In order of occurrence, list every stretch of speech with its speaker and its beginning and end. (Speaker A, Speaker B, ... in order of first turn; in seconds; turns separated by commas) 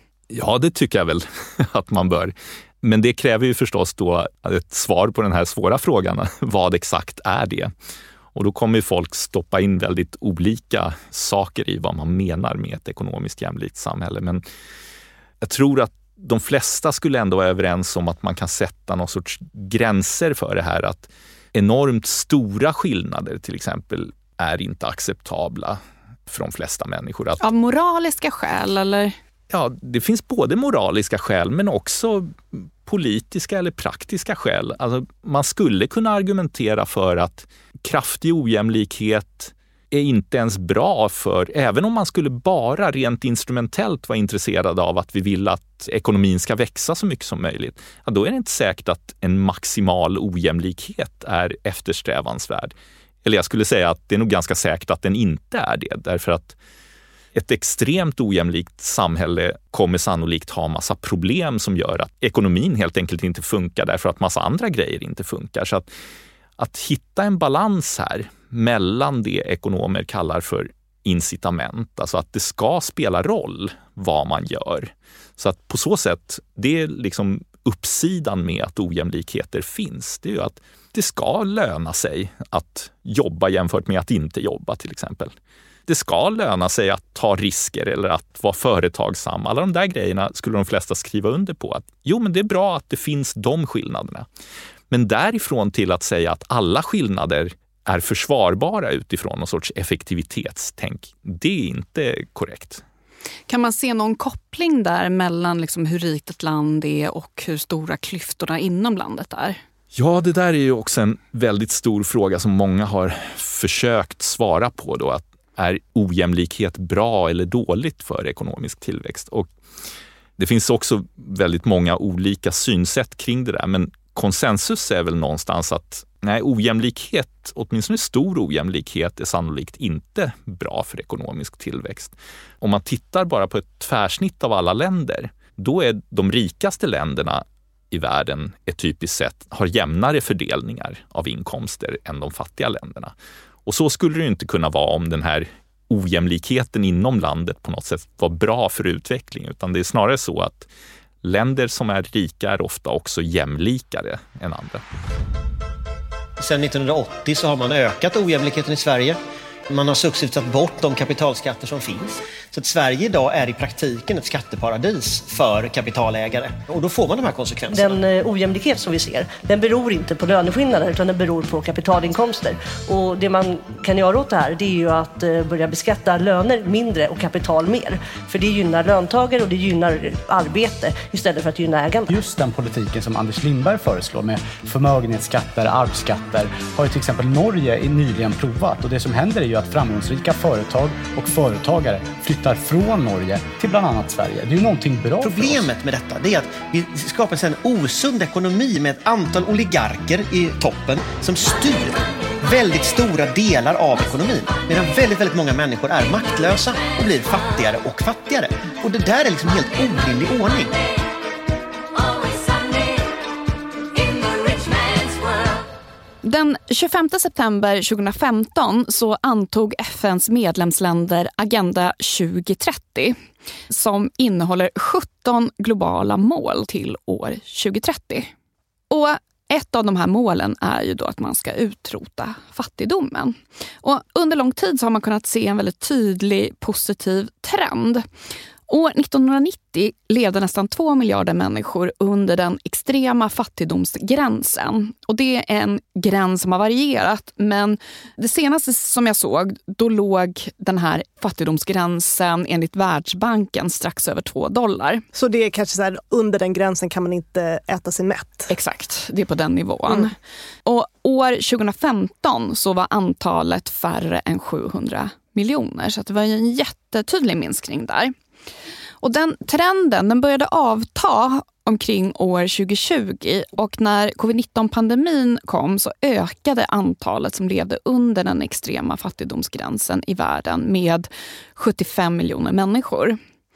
Speaker A: 0.3-7.7, Speaker A: 8.3-14.4, Speaker A: 15.4-27.5, Speaker B: 27.4-29.2, Speaker A: 29.5-56.6, Speaker A: 57.4-65.9, Speaker A: 66.6-85.3, Speaker A: 85.9-94.3, Speaker A: 94.9-102.8, Speaker B: 103.5-109.6, Speaker A: 109.9-119.5, Speaker A: 120.4-143.1, Speaker A: 143.7-150.7, Speaker A: 151.2-154.8, Speaker C: 156.4-159.2, Speaker C: 159.7-168.0, Speaker D: 167.7-182.1, Speaker E: 182.1-195.7, Speaker C: 195.2-210.8, Speaker B: 216.2-223.2, Speaker B: 223.7-228.3, Speaker B: 228.9-238.1, Speaker B: 238.7-255.1, Speaker F: 255.1-258.5, Speaker B: 258.5-268.1, Speaker B: 269.0-283.2